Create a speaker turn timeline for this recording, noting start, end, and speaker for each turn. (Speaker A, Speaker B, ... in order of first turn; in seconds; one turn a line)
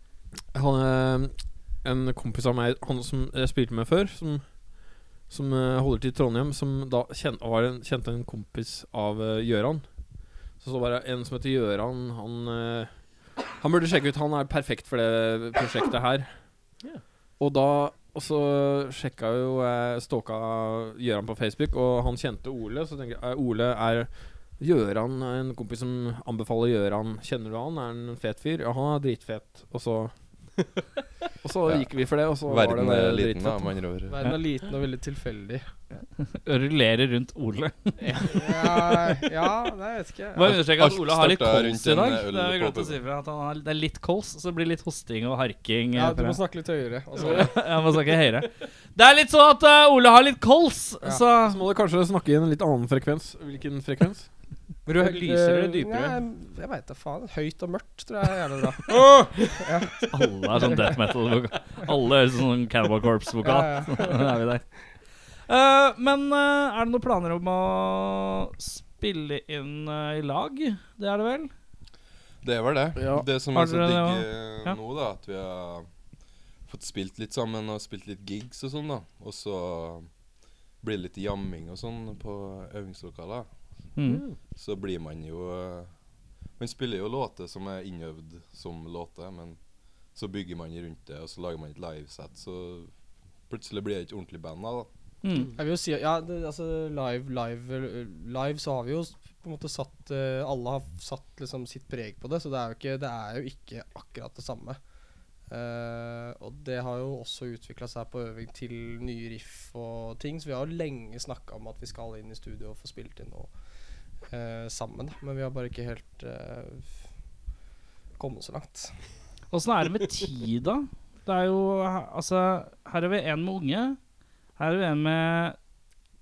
Speaker A: 0.5-9.9
Speaker A: 10.5-16.4
Speaker A: 17.4-30.1
Speaker A: 31.4-33.8
Speaker B: 31.6-34.2
Speaker C: 34.1-35.7
Speaker D: 36.3-38.9
Speaker E: 38.0-38.3
Speaker C: 38.2-40.5
Speaker D: 40.4-46.4
Speaker B: 40.4-43.0
Speaker C: 45.9-47.6
Speaker D: 47.2-51.6
Speaker A: 51.4-54.3
Speaker E: 54.9-56.2
Speaker C: 55.0-60.8
Speaker E: 59.1-59.3
Speaker D: 60.1-64.6
Speaker C: 63.4-64.3
Speaker D: 65.5-71.5
Speaker B: 72.4-75.9
Speaker A: 73.0-73.2
Speaker D: 73.5-74.8
Speaker B: 76.7-80.1
Speaker B: 80.8-83.5
Speaker D: 84.0-84.2
Speaker E: 84.0-84.4
Speaker B: 84.5-85.9
Speaker B: 86.6-92.9
Speaker B: 93.5-94.9
Speaker D: 95.2-95.5
Speaker C: 95.5-104.8
Speaker C: 105.5-113.5
Speaker C: 114.3-117.0
Speaker C: 118.2-119.0
Speaker D: 119.5-124.0
Speaker D: 124.6-125.6